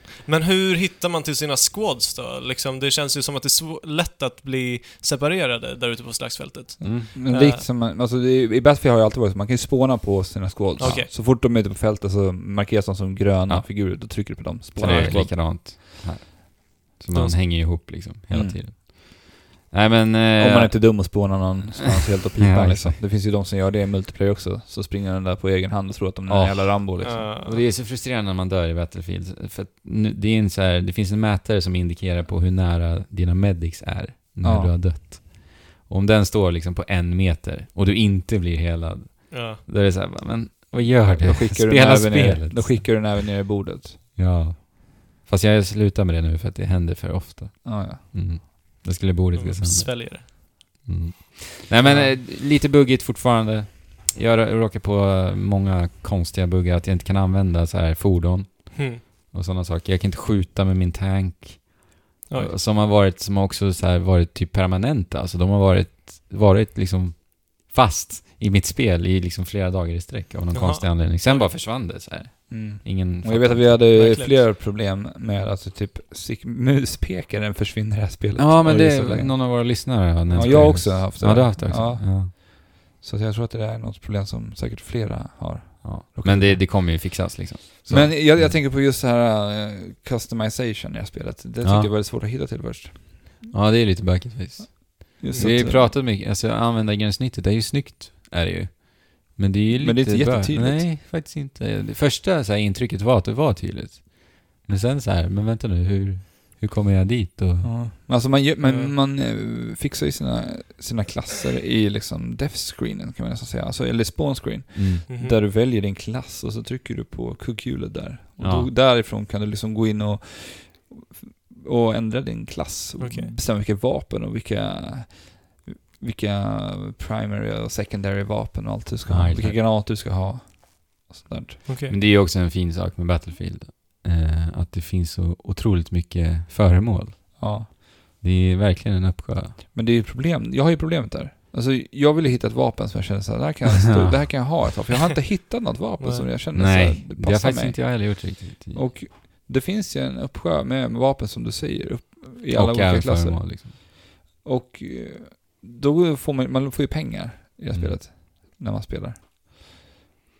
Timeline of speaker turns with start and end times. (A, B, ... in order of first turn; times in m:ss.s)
0:00.2-0:07.6 A
0:06.8-0:07.1 B
0:07.1-0:15.4 C
0:10.8-0:11.1 A
0:13.5-0:21.4 B
0:14.8-0:15.3 A
0:17.1-0:17.4 A
0:18.3-0:18.6 C
0:20.4-0:27.3 C
0:22.4-0:23.0 B
0:26.3-0:43.2 B
0:27.0-0:27.6 A
0:34.4-0:34.8 C
0:39.3-0:39.6 A
0:41.2-0:44.0 C
0:44.2-1:14.0 B
0:47.6-0:48.3 C
0:49.3-0:50.3 A
0:51.8-0:52.2 C
0:58.7-0:59.0 A
1:02.3-1:02.5 A
1:10.5-1:11.5 A
1:12.5-1:27.3 C
1:13.9-1:14.5 A
1:18.4-1:22.3 B
1:25.8-1:28.5 B
1:27.9-1:33.4 C
1:31.6-1:31.9 B
1:33.5-1:47.8 B
1:35.2-1:35.9 C
1:39.7-1:40.9 C
1:47.6-2:11.7 C
1:48.6-1:48.9 A
1:54.7-1:55.0 B
1:55.1-1:55.4 A
1:58.4-1:58.7 B
2:03.0-2:03.3 A
2:09.1-2:09.6 B
2:11.7-2:11.9 A
2:11.9-2:19.6 B
2:17.4-2:17.7 C
2:19.7-2:39.8 C
2:23.8-2:24.1 B
2:26.0-2:26.3 A
2:26.5-2:28.9 B
2:32.5-2:33.7 B
2:37.7-2:38.0 B